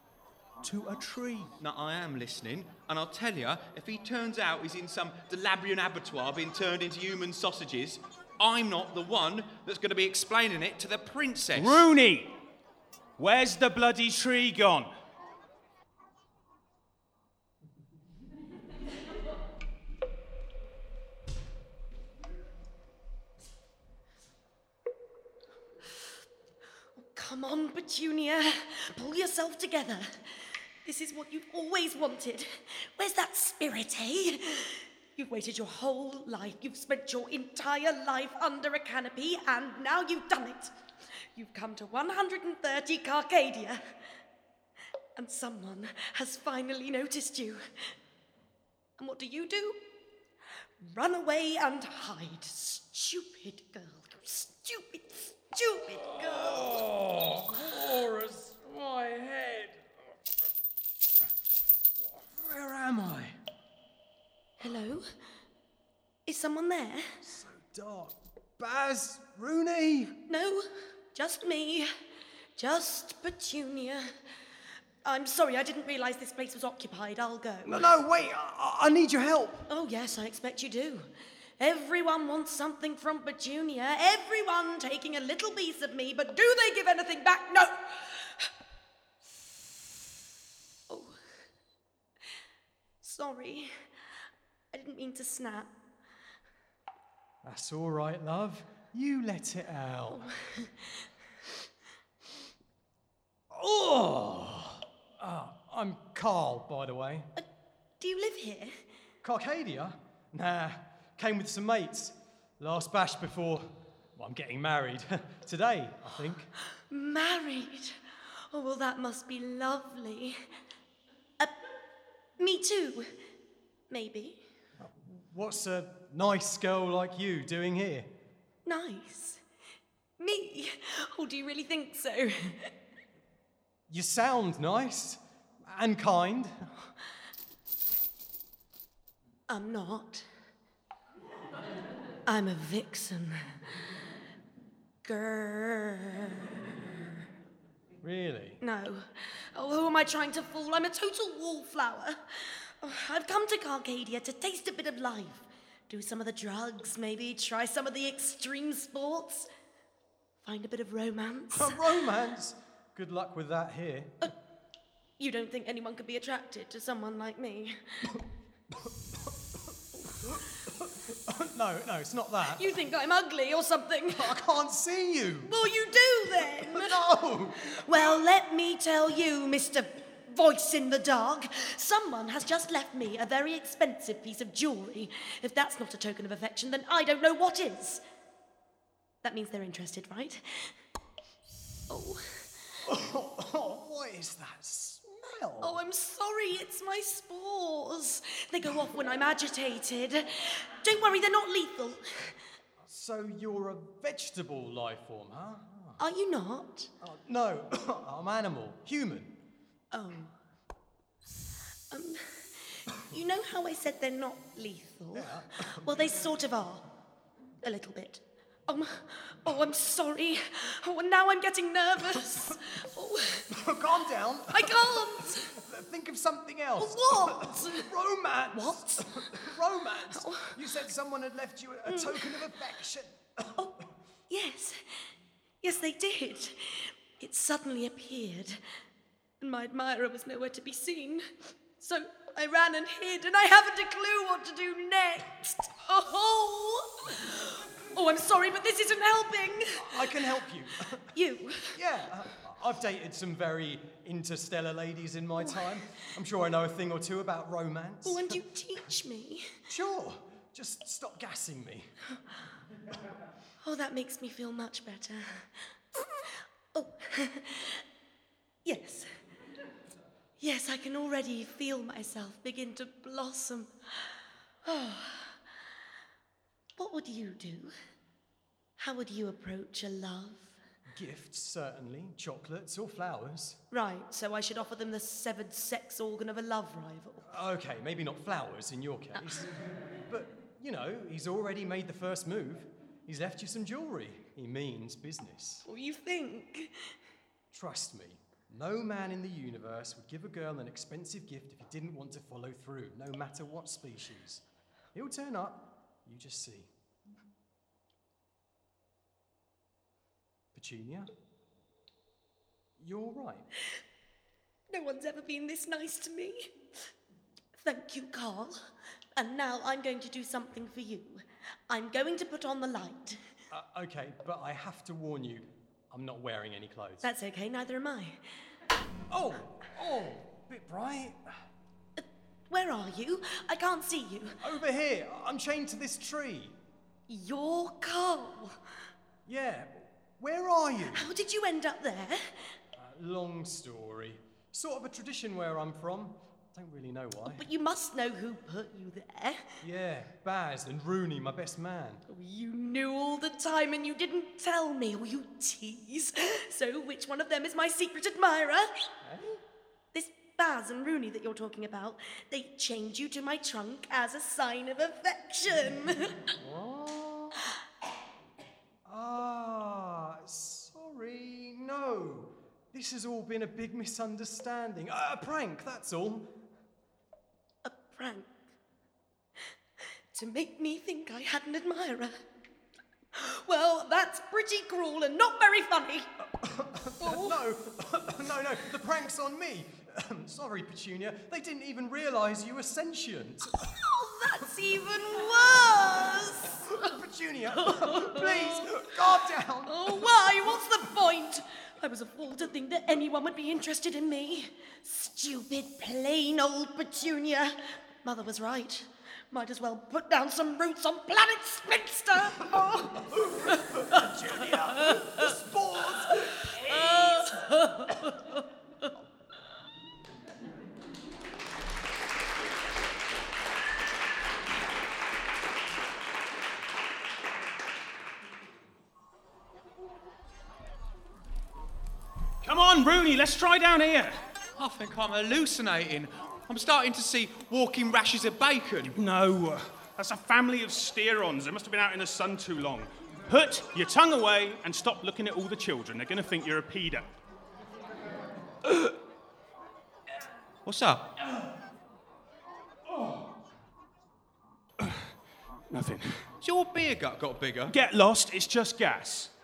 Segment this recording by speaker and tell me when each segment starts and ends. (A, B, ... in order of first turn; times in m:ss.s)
0:00.6-0:01.5 A
0:01.6-0:11.8 B
0:11.6-0:12.3 A
0:13.2-0:14.9 A
0:27.0-0:40.7 C
0:41.3-0:43.8 C
0:45.2-0:47.9 C
0:49.0-0:49.8 C
0:50.8-0:56.8 C
0:55.9-0:59.9 D
1:02.0-1:03.4 D
1:04.6-1:05.1 C
1:06.3-1:07.1 C
1:07.2-1:10.2 D
1:10.3-1:11.9 C
1:12.6-1:14.1 C
1:15.0-1:17.9 C
1:17.6-1:19.7 D
1:19.7-1:21.1 C
1:21.6-1:28.5 C
1:30.9-1:31.2 C
1:33.0-1:33.7 C
1:34.7-1:35.7 C
1:37.4-1:40.3 D
1:40.1-1:41.1 C
1:43.5-1:47.3 D
1:48.0-1:48.7 C
1:49.2-1:56.5 D
1:56.9-1:58.0 C
1:58.5-2:00.4 C
2:02.4-2:03.1 C
2:03.9-2:04.4 C
2:04.8-2:08.1 D
2:08.7-2:09.4 C
2:10.2-2:12.7 C
2:13.9-2:16.9 D
2:19.5-2:20.3 C
2:22.3-2:23.4 C
2:25.0-2:26.4 C
2:28.0-2:28.6 D
2:28.6-2:39.5 C
2:40.4-2:41.8 C
2:41.5-2:44.2 D
2:45.2-2:48.1 C
2:48.8-2:49.3 D
2:50.2-2:52.6 D
2:52.5-2:54.4 C
2:54.1-2:55.6 D
2:55.4-2:57.0 C
2:56.4-2:57.8 D
2:57.6-3:08.0 C
3:09.2-3:10.7 C
3:11.9-3:12.2 C
3:12.8-3:15.8 D
3:15.6-3:22.4 C
3:22.8-3:26.0 D
3:26.0-3:26.9 C
3:27.0-3:29.4 D
3:29.9-3:30.3 C
3:31.9-3:36.9 C
3:35.1-3:35.9 D
3:37.6-3:43.5 C
3:43.5-3:53.6 D
3:44.5-3:45.6 C
3:46.8-3:47.9 C
3:48.5-3:49.5 C
3:50.1-3:50.6 C
3:51.9-3:52.6 C
3:54.3-3:55.0 C
3:55.6-3:58.6 C
3:59.4-4:10.3 C
4:09.7-4:11.1 D
4:11.1-4:11.8 C
4:11.7-4:18.4 D
4:15.4-4:15.8 C
4:18.0-4:19.6 C
4:19.7-4:21.9 D
4:23.6-4:27.8 C
4:28.6-4:29.1 C
4:30.4-4:35.4 C
4:36.8-4:37.7 C
4:38.8-4:40.6 C
4:40.9-4:43.6 D
4:43.7-4:47.3 C
4:47.2-4:49.5 D
4:49.2-4:49.5 C
4:50.1-4:55.7 D
4:55.6-4:56.9 C
4:57.5-5:04.4 D
5:04.9-5:06.7 D
5:10.5-5:11.1 D
5:12.8-5:13.5 D
5:14.7-5:16.5 C
5:17.6-5:18.6 C
5:19.2-5:23.2 C
5:23.5-5:27.1 D
5:27.0-5:28.2 C
5:29.1-5:31.2 D
5:32.0-5:34.4 C
5:34.4-5:36.6 D
5:37.1-5:38.6 C
5:39.3-5:41.1 D
5:40.9-5:42.5 C
5:42.8-5:47.4 D
5:47.2-5:49.5 C
5:49.6-5:52.0 D
5:52.1-5:58.7 C
5:59.0-5:59.4 D
5:59.9-6:06.3 C
6:06.3-6:07.4 D
6:08.8-6:16.4 D
6:17.6-6:18.3 C
6:20.1-6:22.2 C
6:23.1-6:26.1 C
6:26.4-6:33.7 D
6:27.0-6:27.4 C
6:33.6-6:37.0 C
6:36.7-6:40.2 D
6:37.6-6:38.9 C
6:39.7-6:54.0 C
6:52.6-6:57.5 D
6:56.7-6:57.4 C
7:12.4-7:14.2 A
7:14.6-7:19.0 B
7:19.0-7:27.1 A
7:30.6-7:31.1 B
7:34.8-7:35.2 A
7:35.7-7:36.3 A
7:36.4-7:37.8 B
7:37.7-7:39.3 A